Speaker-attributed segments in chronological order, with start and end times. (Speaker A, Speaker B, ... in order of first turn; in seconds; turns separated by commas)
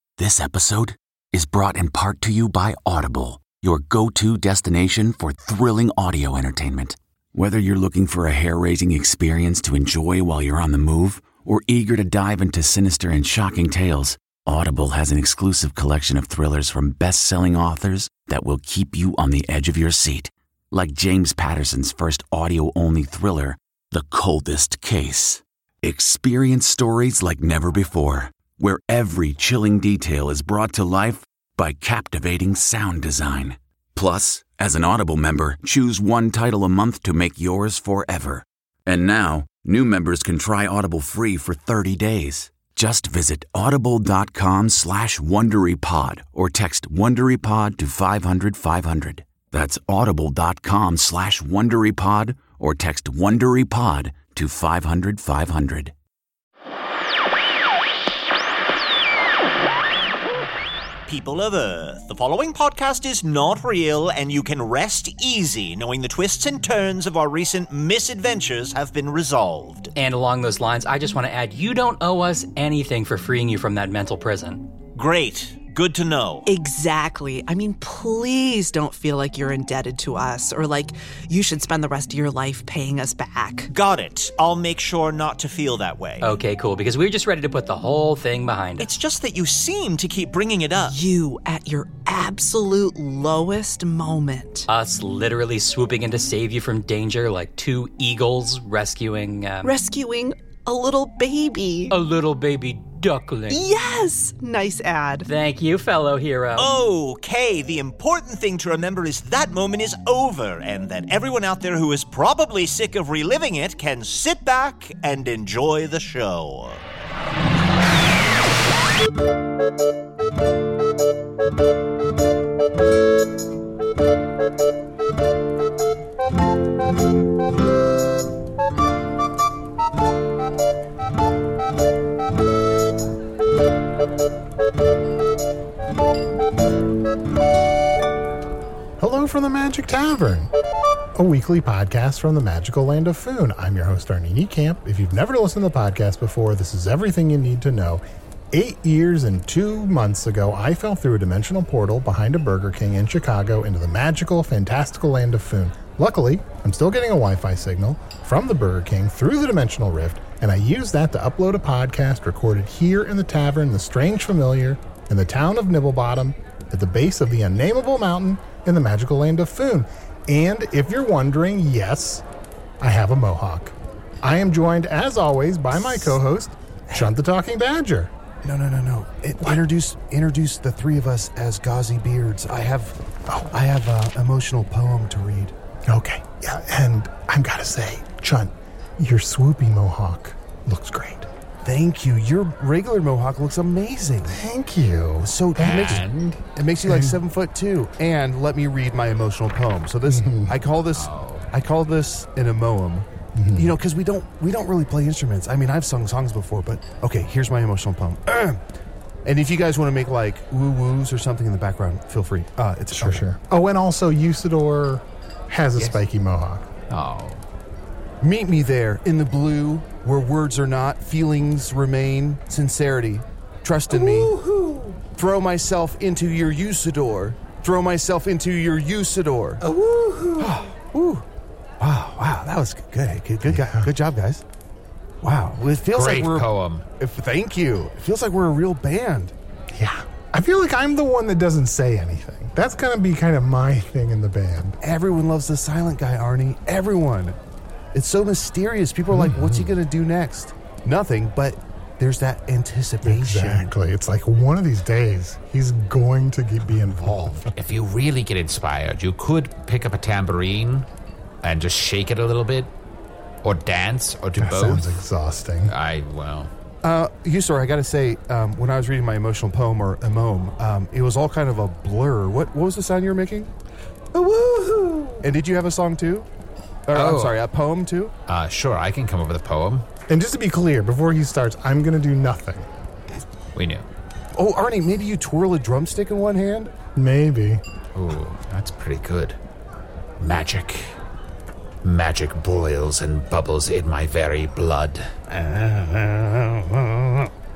Speaker A: 0.2-55.9, Speaker B: 61.1-69.9, Speaker C: 70.0-74.7, Speaker B: 74.9-76.5, Speaker D: 76.5-83.7, Speaker B: 83.7-86.3, Speaker C: 86.2-88.9, Speaker B: 88.8-91.0, Speaker D: 90.8-94.7, Speaker C: 94.7-99.7, Speaker D: 99.6-102.0, Speaker C: 101.9-103.6, Speaker D: 103.5-105.3, Speaker C: 105.3-106.7, Speaker B: 106.5-116.8, Speaker E: 139.0-140.5, Speaker E: 141.2-172.2, Speaker E: 172.8-178.1, Speaker F: 175.7-176.2, Speaker F: 176.9-177.2, Speaker F: 178.4-183.0, Speaker F: 183.5-185.5, Speaker E: 185.9-191.3, Speaker F: 191.6-194.4, Speaker E: 194.3-196.0, Speaker F: 195.2-208.6, Speaker G: 195.6-196.4, Speaker E: 196.9-197.2, Speaker E: 200.1-200.6, Speaker G: 200.9-201.5, Speaker E: 203.3-203.7, Speaker F: 209.2-213.3, Speaker E: 213.0-216.7, Speaker G: 216.9-217.4, Speaker F: 218.2-224.4, Speaker F: 225.1-229.7, Speaker F: 230.4-231.2, Speaker F: 231.8-234.4, Speaker E: 233.5-233.9, Speaker F: 235.2-239.3, Speaker G: 235.9-236.8, Speaker E: 239.7-244.8, Speaker F: 244.8-247.4, Speaker F: 247.9-253.7, Speaker E: 249.1-249.8, Speaker E: 253.0-257.5, Speaker G: 257.0-260.9, Speaker G: 261.4-262.7, Speaker G: 263.4-265.0, Speaker E: 264.4-265.7, Speaker G: 265.7-266.5, Speaker F: 266.8-273.5, Speaker G: 274.2-274.5, Speaker F: 275.2-276.3, Speaker F: 276.9-278.1, Speaker G: 276.9-277.4, Speaker G: 278.3-279.9, Speaker E: 280.1-282.7, Speaker G: 283.6-283.9, Speaker F: 284.3-286.7, Speaker E: 287.0-287.6, Speaker G: 287.9-289.4, Speaker G: 290.2-290.9, Speaker G: 291.8-295.1, Speaker F: 295.3-297.3